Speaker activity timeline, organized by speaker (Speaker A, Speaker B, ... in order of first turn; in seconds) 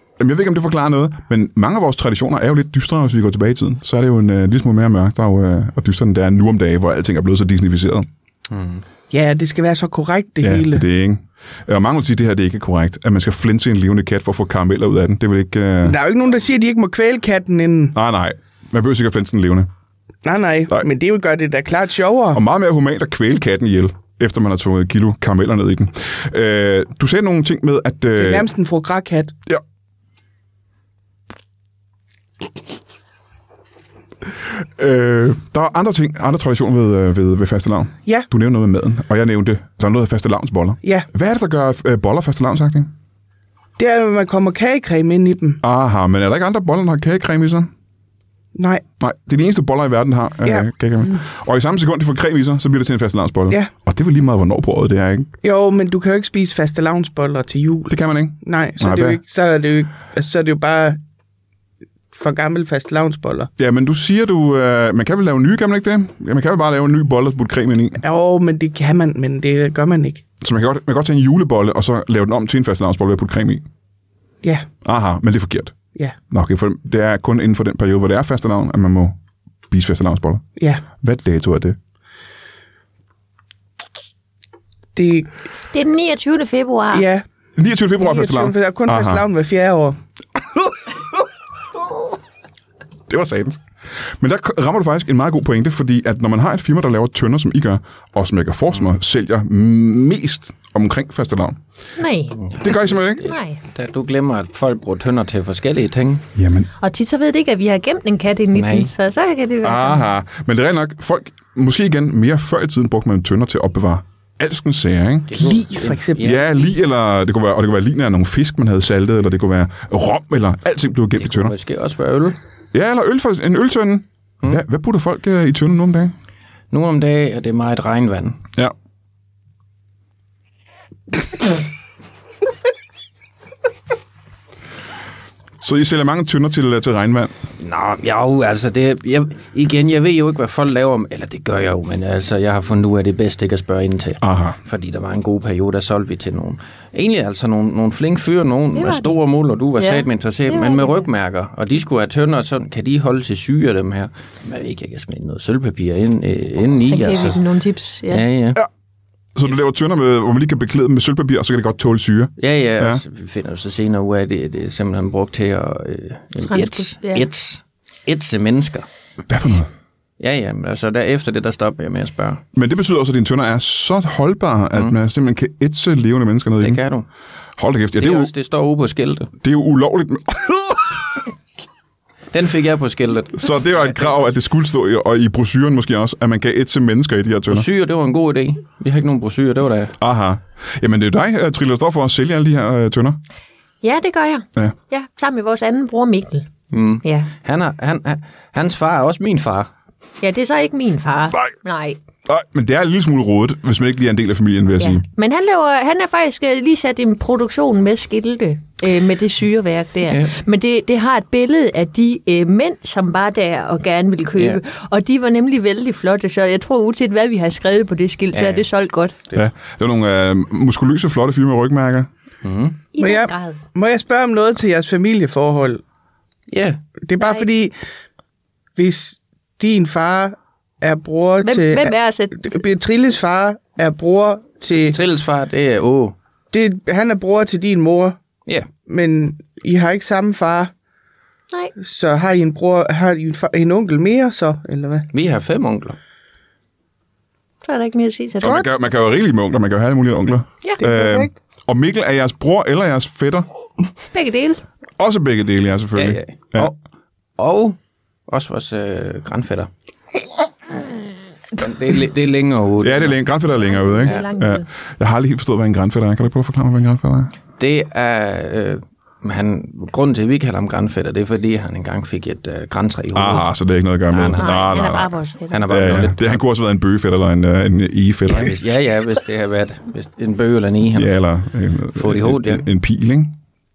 Speaker A: 0.2-8.1, 10.4-16.0, 17.9-19.7, 22.3-28.5, 34.6-42.9, 45.6-47.7, 49.0-55.3, 57.9-59.2, 63.6-68.0, 70.4-73.7, 74.8-75.8, 76.3-79.2, 79.7-81.8, 87.6-89.2, 93.1-101.6, 102.6-103.2, 106.3-106.7, 109.6-115.6, 116.2-121.5, 122.7-126.1, 135.6-137.3, 144.2-144.6, 159.4-163.0, 169.3-169.7, 172.5-176.8, 177.6-178.3, 179.4-181.2, 183.4-187.7, 190.0-193.2, 202.3-205.0, 219.3-222.1, 248.4-253.5, 255.0-256.7, 262.8-267.3, 273.1-275.1, 275.7-278.6, 280.9-283.4
Speaker B: 8.5-8.8, 102.4-106.3, 108.5-108.9, 115.3-116.5, 121.2-122.4, 126.7-128.4, 137.6-157.4, 158.1-158.6, 162.4-168.9, 170.2-172.4, 176.6-177.1, 178.0-179.3, 182.3-184.0, 187.5-189.9, 196.7-199.7, 210.1-210.3, 214.4-214.6, 218.3-218.7, 222.4-222.8, 226.5-226.8, 234.7-236.2, 245.1-246.0, 255.9-256.8, 257.4-257.8, 258.3-259.7, 261.6-263.2, 264.0-264.3, 267.6-273.5, 274.1-274.9, 275.5-276.4, 278.3-281.1, 281.9-282.6
Speaker C: 9.1-10.9, 15.8-18.0, 20.2-22.4, 28.2-29.3, 40.8-41.1, 43.8-45.6, 48.5-48.8, 50.4-51.2, 55.4-61.0, 62.1-63.5, 68.0-70.2, 80.6-80.8, 85.0-85.3, 86.9-87.2, 88.0-90.0, 115.3-116.2, 223.0-225.8, 227.1-227.8, 228.8-235.0, 236.5-238.2, 238.9-240.7, 241.8-245.1, 250.8-251.3
Speaker D: 85.7-87.1, 102.0-102.6, 103.2-103.6, 106.8-110.1, 148.7-149.2, 149.8-151.1, 156.9-158.2, 166.5-167.3, 193.8-196.5, 197.0-197.3, 200.2-202.0, 204.8-219.2, 222.9-223.6, 227.2-227.5, 231.4-232.5, 247.6-248.6, 254.1-254.6, 263.6-264.6, 274.4-275.8